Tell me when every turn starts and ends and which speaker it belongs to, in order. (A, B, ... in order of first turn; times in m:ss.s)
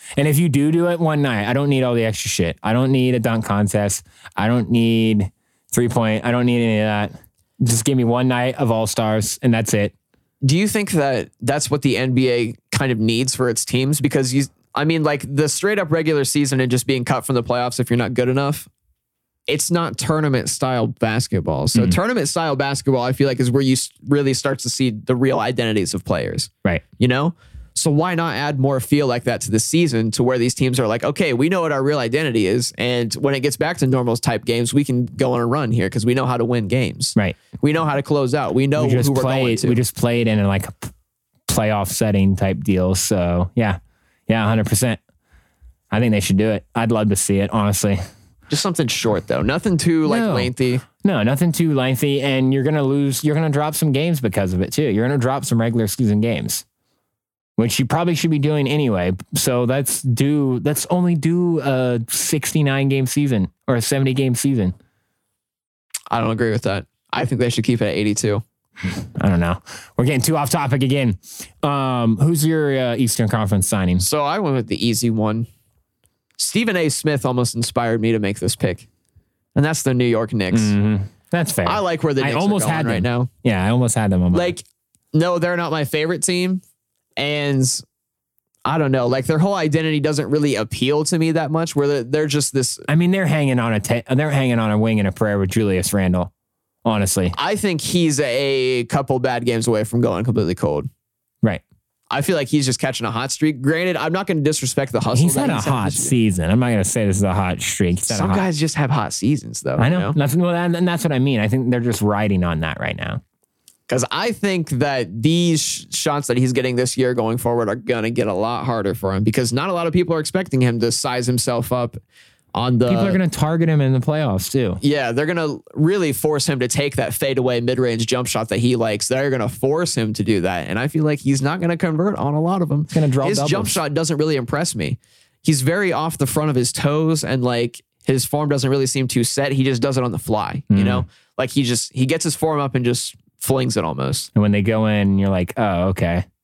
0:00.2-0:09.9 A
0:10.4-0:18.7 B
0:19.5-0:39.8 B
0:38.8-0:40.9 A
0:41.5-0:45.0 A
0:45.9-0:48.0 A
0:48.5-0:50.8 B
0:50.1-0:56.6 A
0:57.6-1:04.8 A
1:06.1-1:08.4 B
1:08.8-1:14.0 A
1:14.0-1:15.5 B
1:16.4-1:18.9 B
1:19.6-1:20.7 B
1:20.5-1:24.5 A
1:21.6-1:23.3 B
1:24.3-1:26.6 B
1:27.2-1:27.8 B
1:28.6-1:32.9 B
1:32.9-1:36.3 A
1:36.8-1:37.4 A
1:37.3-1:40.9 B
1:42.1-1:46.1 B
1:45.1-1:48.5 A
1:48.1-1:50.2 B
1:49.8-1:53.2 A
1:53.9-2:02.0 B
2:02.5-2:03.2 B
2:02.9-2:04.8 A
2:04.8-2:24.3 B
2:12.9-2:13.8 A
2:20.7-2:21.0 A
2:24.4-2:26.2 A